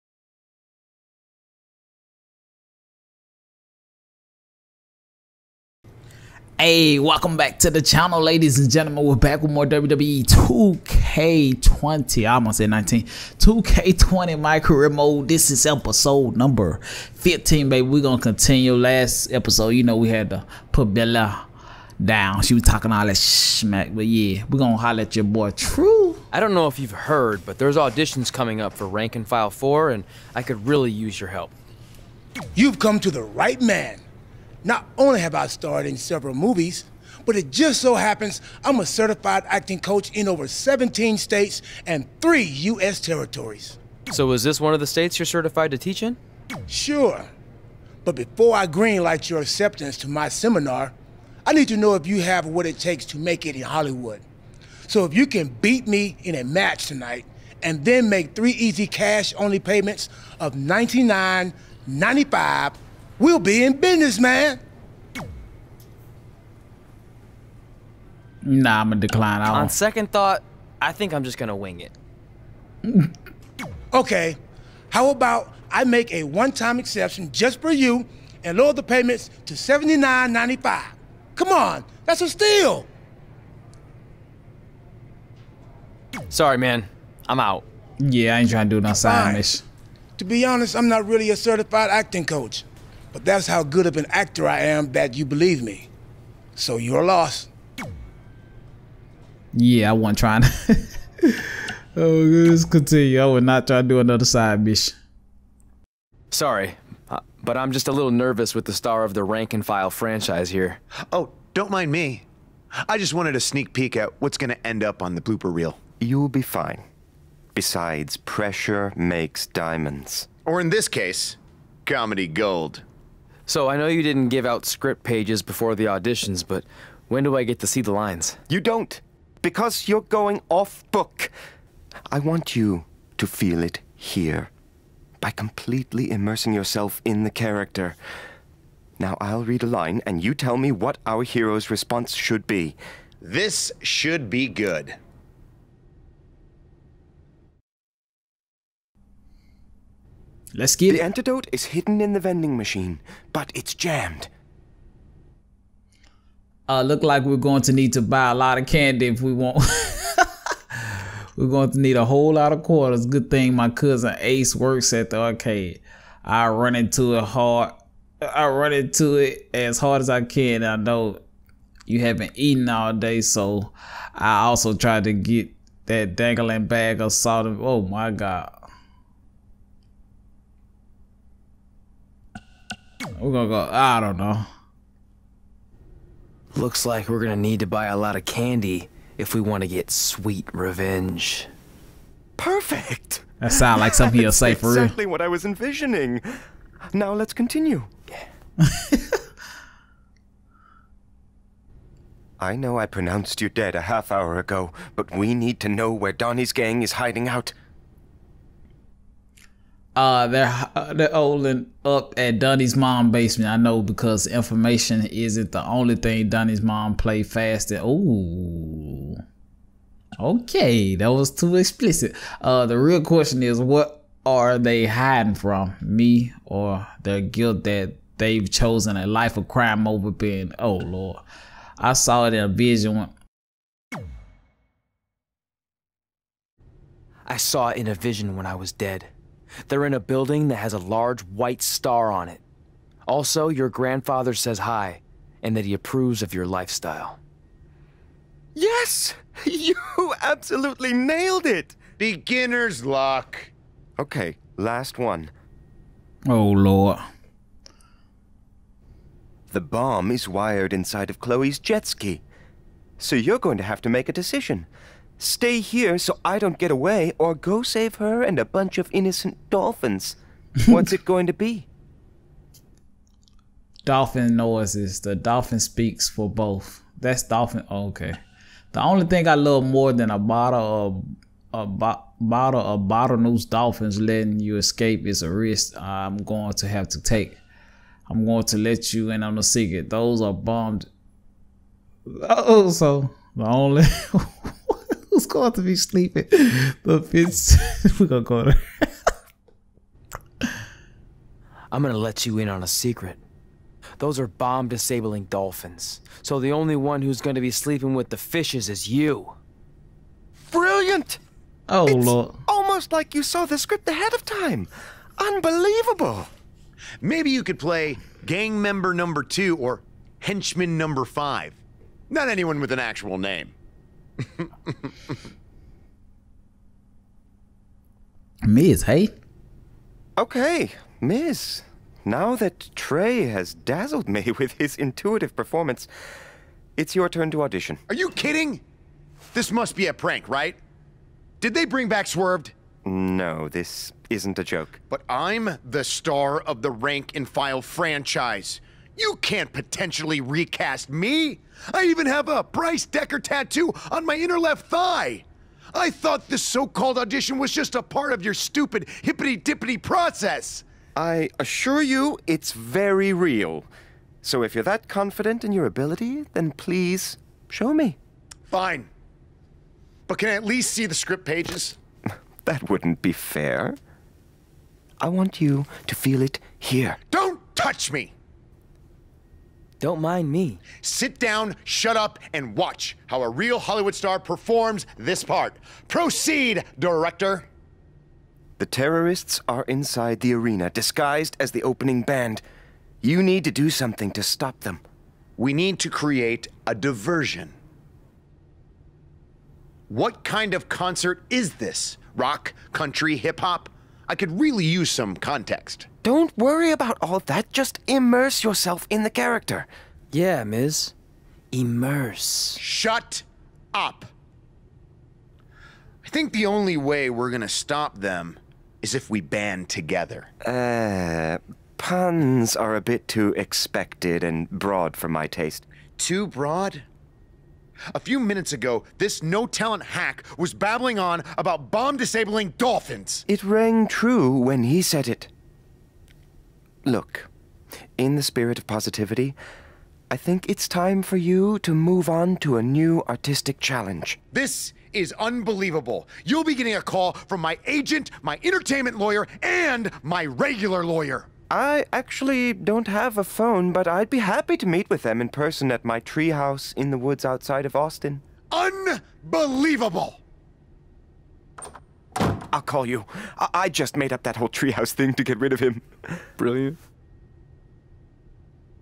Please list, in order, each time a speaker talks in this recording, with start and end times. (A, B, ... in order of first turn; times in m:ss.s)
0:06.6-0:21.4 A
0:22.0-0:26.2 A
0:26.3-0:31.5 B
0:32.5-0:34.0 C
0:34.6-0:43.8 C
0:44.1-0:46.2 B
0:46.7-0:47.3 C
0:48.0-0:50.9 C
0:51.4-0:54.2 C
0:54.9-1:04.6 C
1:08.4-1:09.7 A
1:09.5-1:11.9 B
1:13.9-1:14.4 C
1:14.9-1:22.9 C
1:26.3-1:27.6 B
1:28.0-1:29.6 A
1:29.0-1:29.4 C
1:30.2-1:35.9 C
1:36.6-1:37.5 C
1:39.5-1:44.9 A
1:46.3-1:50.8 B
1:51.1-1:52.2 D
1:52.8-1:55.8 D
1:56.0-1:56.8 E
1:57.5-2:00.3 E
2:00.4-2:02.8 D
2:03.5-2:08.4 B
2:08.5-2:11.3 E
2:12.1-2:14.5 E
2:15.2-2:18.0 E
2:19.0-2:22.8 E
2:23.2-2:25.0 D
2:30.5-2:31.0 A
2:30.9-2:34.3 E
2:36.7-2:51.2 A
2:51.9-2:58.5 A
3:03.2-3:04.5 A
3:06.5-3:11.5 B
3:12.4-3:16.4 E
3:13.4-3:14.9 A
3:16.9-3:17.9 E
3:18.6-3:19.2 A
3:22.4-3:27.5 E
3:29.9-3:39.2 A
3:40.2-3:51.2 A
3:51.8-3:53.1 A
3:57.3-3:59.1 B
3:59.7-4:02.4 B
4:03.0-4:07.2 B
4:08.5-4:11.8 E
4:12.0-4:13.5 D
4:14.0-4:15.3 E
4:16.2-4:17.0 A
4:19.5-4:22.2 E
4:23.0-4:24.7 E
4:25.2-4:31.7 E
4:33.8-4:38.2 A
4:38.7-4:47.4 A
4:48.1-4:50.9 A
4:52.1-4:58.9 A
5:01.7-5:03.2 B
5:04.0-5:09.3 B
5:10.5-5:11.2 E
5:11.7-5:12.4 A
5:11.9-5:16.3 E
5:17.0-5:23.5 D
5:24.4-5:24.9 D
5:28.4-5:29.1 A
5:30.2-5:35.9 E
5:36.8-5:37.8 E
5:37.9-5:38.6 D
5:39.3-5:40.6 D
5:41.4-5:42.5 D
5:42.8-5:44.8 E
5:44.9-6:00.6 D
6:01.0-6:03.7 E
6:04.2-6:08.0 E
6:08.5-6:08.9 D
6:10.1-6:11.8 D
6:12.4-6:13.8 E
6:15.0-6:17.0 E
6:17.1-6:18.1 D
6:19.8-6:20.6 B
6:20.8-6:27.4 D
6:28.6-6:32.4 E
6:33.0-6:34.8 E
6:35.4-6:37.5 D
6:39.9-6:45.9 D
6:46.0-6:49.7 E
6:50.1-6:50.9 B
6:51.5-6:52.6 B
6:52.6-6:54.1 D
6:56.0-7:00.3 D
7:00.4-7:05.6 E
7:06.0-7:06.8 D
7:07.9-7:13.2 D
7:13.3-7:15.3 E
7:16.8-7:17.3 E
7:18.0-7:19.4 E
7:20.1-7:24.2 E
7:24.3-7:31.3 D
7:31.5-7:38.2 E
7:38.5-7:40.2 D
7:42.5-7:46.2 E
7:46.4-7:46.8 B